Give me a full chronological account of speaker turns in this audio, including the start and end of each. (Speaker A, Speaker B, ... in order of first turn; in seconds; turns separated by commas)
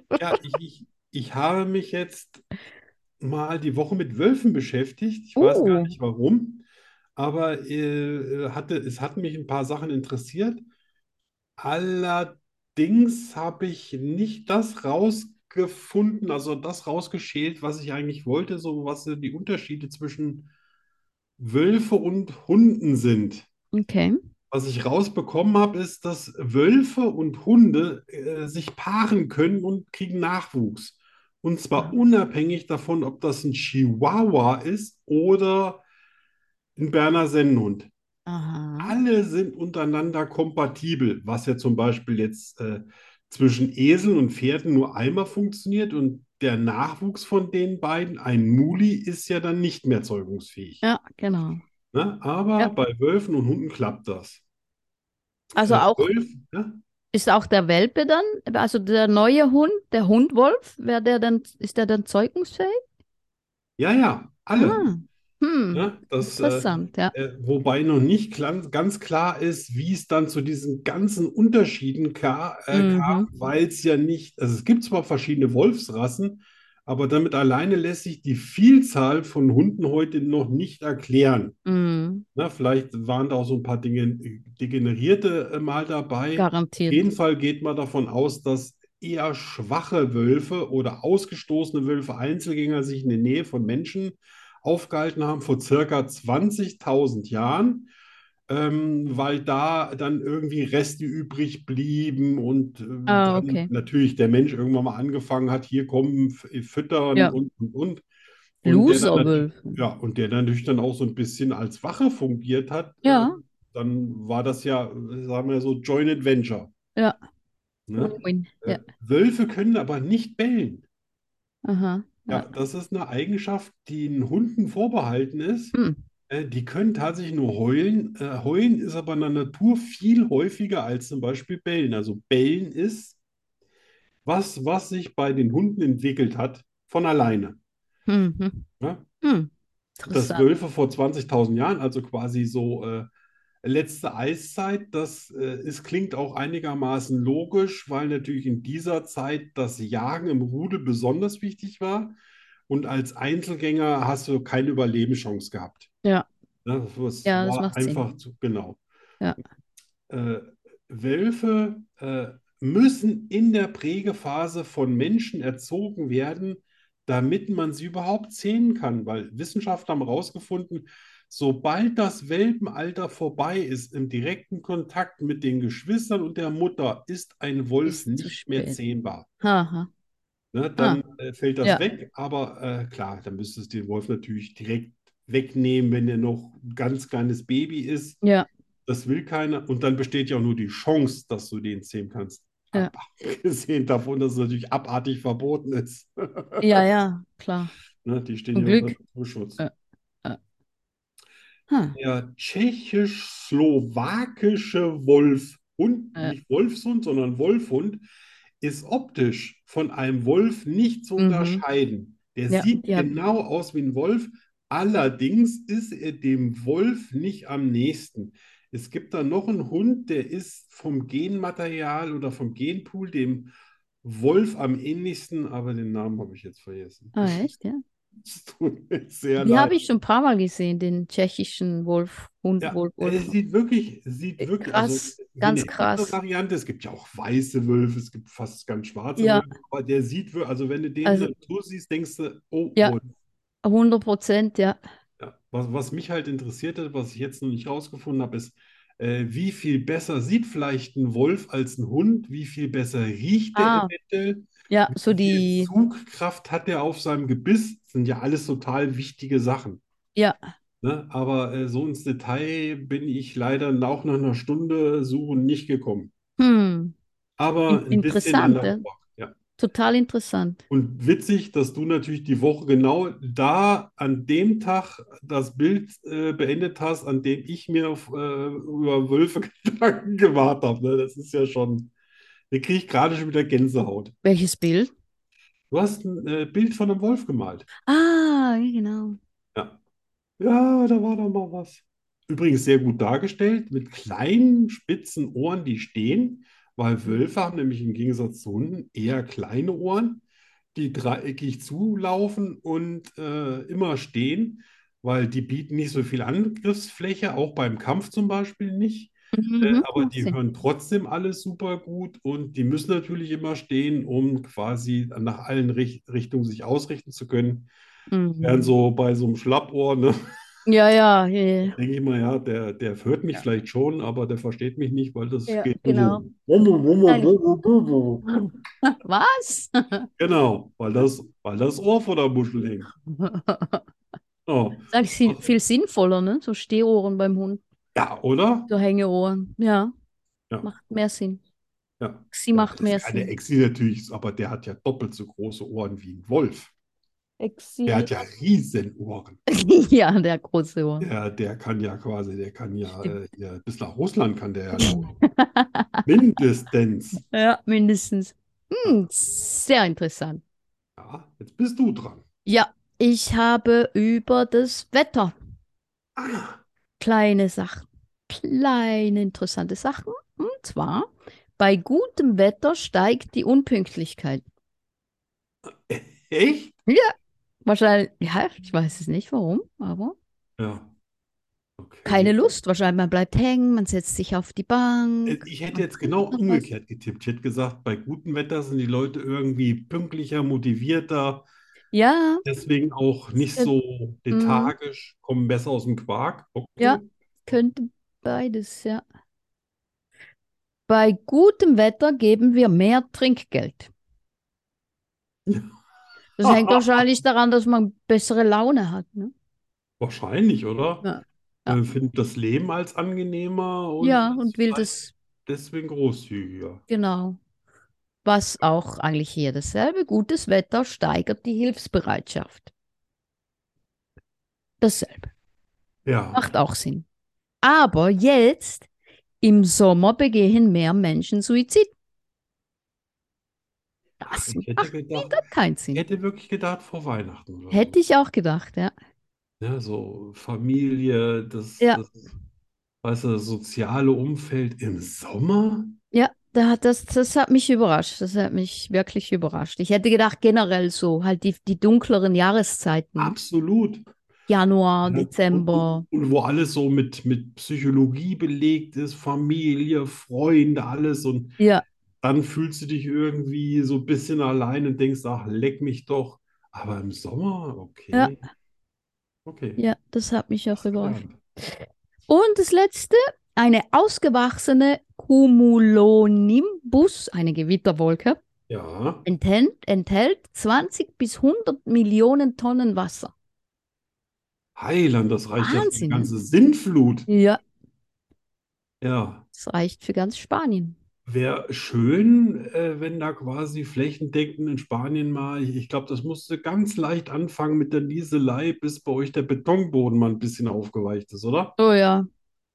Speaker A: 0.1-2.4, Speaker A: 3.2-6.6, Speaker B: 5.3-5.9, Speaker A: 7.2-10.6, Speaker A: 11.6-20.5, Speaker A: 21.4-23.5, Speaker B: 23.7-24.1, Speaker A: 24.5-35.8, Speaker A: 36.8-37.9, Speaker B: 38.3-39.0, Speaker A: 38.8-50.8, Speaker B: 50.8-51.6, Speaker A: 51.9-54.4, Speaker B: 55.5-56.1, Speaker A: 55.6-56.8, Speaker B: 57.1-62.8, Speaker A: 63.8-64.8, Speaker B: 64.5-67.1, Speaker A: 65.7-81.6, Speaker B: 72.7-73.3, Speaker B: 81.7-82.2, Speaker A: 82.3-97.9, Speaker B: 86.3-87.1, Speaker A: 98.5-108.0, Speaker B: 103.1-103.7, Speaker A: 108.6-116.7, Speaker B: 108.6-109.8, Speaker B: 113.0-113.4, Speaker A: 117.9-120.8, Speaker B: 118.0-118.8, Speaker B: 121.6-122.5, Speaker A: 122.3-125.7, Speaker B: 125.7-126.0, Speaker A: 126.3-133.2, Speaker A: 134.2-137.6, Speaker B: 138.1-138.7, Speaker A: 138.8-139.0, Speaker B: 139.2-140.5, Speaker A: 140.1-143.1, Speaker A: 143.6-152.2, Speaker A: 152.7-155.9, Speaker A: 156.6-158.8, Speaker B: 157.2-158.0, Speaker A: 160.1-179.3, Speaker B: 177.8-178.8, Speaker B: 179.4-179.9, Speaker A: 180.5-188.2, Speaker B: 188.2-188.5, Speaker A: 188.8-196.8, Speaker B: 196.6-197.7, Speaker A: 198.0-199.6, Speaker B: 198.5-198.9, Speaker B: 201.7-201.9, Speaker A: 201.9-208.0, Speaker A: 208.6-227.5, Speaker B: 211.2-211.6, Speaker B: 212.5-213.1, Speaker B: 227.1-227.8, Speaker A: 228.2-229.7, Speaker B: 229.4-233.3, Speaker A: 232.6-243.1, Speaker B: 234.4-236.2, Speaker B: 239.2-239.4, Speaker B: 241.0-241.3, Speaker B: 243.6-244.8, Speaker A: 245.2-259.8, Speaker B: 253.5-253.9, Speaker B: 254.7-255.7, Speaker A: 260.8-266.1, Speaker B: 266.4-266.9, Speaker A: 267.4-269.3, Speaker B: 267.7-268.8, Speaker B: 269.6-270.6, Speaker A: 270.7-281.9, Speaker A: 282.5-284.1, Speaker B: 284.2-284.9, Speaker A: 285.7-287.7, Speaker B: 287.9-289.2, Speaker A: 290.4-300.2, Speaker A: 300.7-317.7, Speaker B: 309.3-310.4, Speaker B: 318.1-318.7, Speaker A: 318.4-320.2, Speaker B: 320.6-321.8, Speaker A: 321.7-328.3, Speaker B: 325.5-326.2, Speaker B: 327.0-327.3, Speaker B: 328.4-330.1, Speaker A: 330.2-332.9, Speaker B: 333.1-333.8, Speaker A: 334.4-335.4, Speaker B: 334.9-337.6, Speaker A: 337.9-338.7, Speaker B: 338.7-339.9, Speaker B: 340.6-341.4, Speaker A: 342.0-346.7, Speaker B: 342.3-343.3, Speaker B: 347.4-348.1, Speaker A: 347.9-349.4, Speaker B: 349.5-351.1, Speaker A: 351.0-355.1, Speaker B: 354.8-356.0, Speaker A: 356.1-357.2, Speaker B: 357.3-360.4, Speaker A: 361.0-362.2, Speaker B: 362.4-365.3, Speaker A: 366.1-366.6, Speaker B: 367.0-371.1, Speaker B: 371.6-374.4, Speaker A: 375.7-376.7, Speaker B: 376.9-377.1, Speaker B: 377.6-380.1, Speaker A: 380.6-380.9, Speaker A: 381.8-382.4, Speaker B: 382.0-386.6, Speaker A: 385.2-391.4, Speaker B: 391.9-392.4, Speaker A: 392.4-397.6, Speaker B: 394.3-394.7, Speaker B: 396.8-399.0, Speaker B: 400.9-403.9, Speaker A: 405.5-405.7, Speaker B: 406.4-409.3, Speaker A: 406.4-407.1, Speaker A: 410.0-411.1, Speaker B: 411.0-411.8, Speaker A: 411.6-416.8, Speaker B: 414.0-415.1, Speaker B: 416.9-417.4, Speaker B: 418.2-422.7, Speaker B: 424.8-425.3, Speaker A: 426.1-426.4, Speaker B: 426.3-427.0, Speaker B: 427.6-428.9, Speaker B: 429.4-431.9, Speaker B: 434.2-436.0, Speaker A: 434.3-435.4, Speaker A: 435.9-438.0, Speaker B: 437.7-438.9, Speaker A: 439.6-442.2, Speaker A: 443.0-446.0, Speaker B: 446.1-453.4, Speaker A: 453.2-454.0, Speaker B: 454.5-456.1, Speaker A: 455.0-461.6, Speaker B: 461.6-461.8, Speaker A: 462.2-468.4, Speaker A: 469.4-469.8, Speaker B: 469.8-471.2, Speaker A: 470.8-471.4, Speaker B: 472.3-478.4, Speaker A: 478.7-479.2, Speaker B: 479.2-483.3, Speaker A: 484.8-487.3, Speaker B: 485.6-486.3, Speaker B: 487.3-487.6, Speaker A: 489.0-489.4, Speaker B: 489.5-491.0, Speaker A: 491.2-501.7, Speaker B: 501.8-502.3